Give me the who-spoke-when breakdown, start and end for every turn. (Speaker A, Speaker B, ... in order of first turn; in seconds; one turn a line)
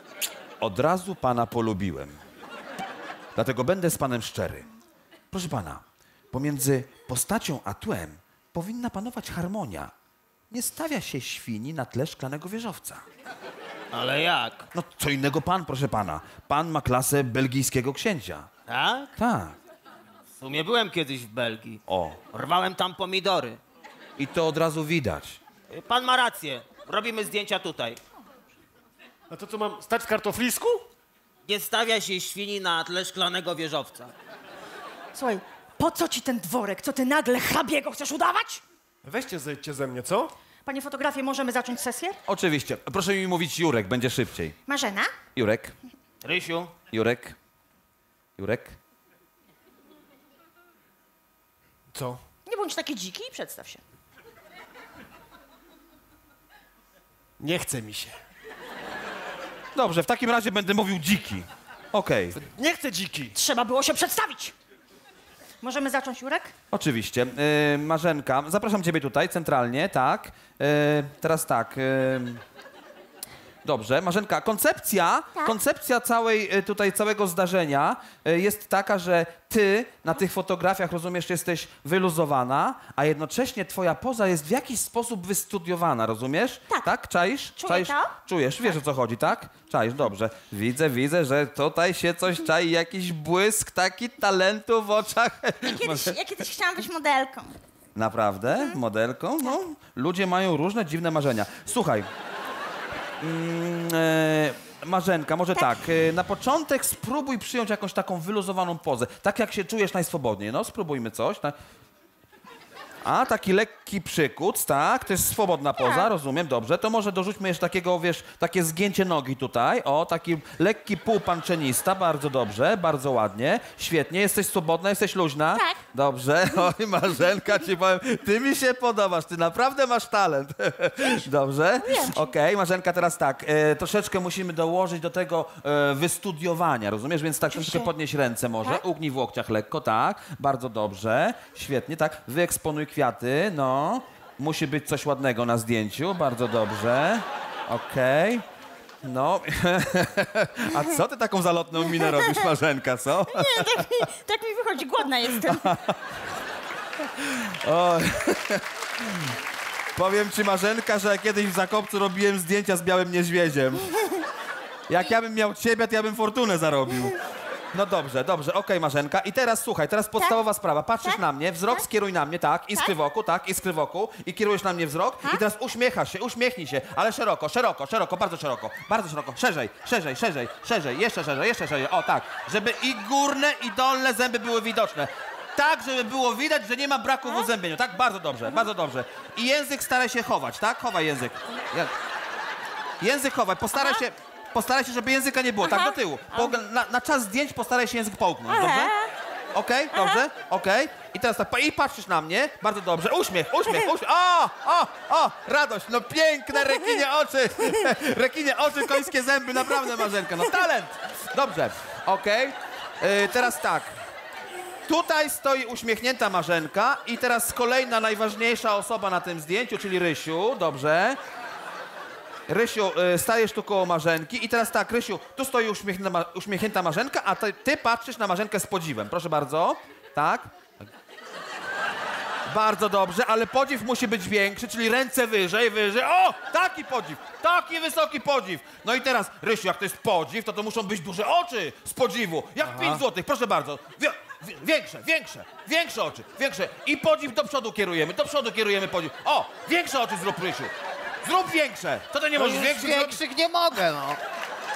Speaker A: 0.6-2.2
Speaker A: 3.4-4.7
Speaker A: 5.3-9.9
Speaker A: 10.5-13.0
Speaker B: 13.9-14.7
Speaker A: 14.7-18.5
Speaker B: 18.7-19.1
Speaker A: 19.2-19.6
Speaker B: 20.4-23.6
Speaker A: 21.9-22.2
Speaker A: 24.2-25.4
Speaker B: 25.7-28.0
Speaker C: 29.3-30.9
Speaker B: 31.5-34.1
Speaker D: 35.1-38.6
Speaker C: 39.0-40.3
Speaker D: 40.6-42.2
Speaker A: 42.3-44.6
Speaker D: 44.7-45.1
Speaker A: 45.4-45.8
Speaker B: 46.2-46.7
Speaker A: 46.9-47.4
Speaker A: 48.4-48.8
Speaker C: 51.9-52.2
Speaker D: 52.5-53.8
Speaker C: 57.4-58.2
Speaker A: 59.8-62.4
Speaker C: 62.4-63.4
Speaker D: 63.3-64.5
Speaker D: 65.6-66.5
Speaker A: 66.7-72.4
Speaker A: 73.6-96.2
Speaker D: 87.6-88.1
Speaker D: 95.6-97.6
Speaker A: 98.0-102.1
Speaker D: 98.5-98.8
Speaker A: 103.2-111.6
Speaker A: 113.0-148.4
Speaker D: 131.8-132.3
Speaker D: 137.5-137.9
Speaker A: 149.0-153.9
Speaker D: 153.3-155.7
Speaker A: 155.4-156.0
Speaker A: 157.2-159.1
Speaker A: 159.9-163.9
Speaker A: 164.9-167.2
Speaker A: 167.7-191.9
Speaker A: 193.0-199.0
Speaker D: 198.6-199.0
Speaker A: 199.5-213.9
Speaker A: 214.9-221.2
Speaker A: 222.5-230.5
Speaker A: 232.5-250.7
Speaker C: 242.6-243.0
Speaker A: 251.2-253.2
Speaker B: 252.4-254.2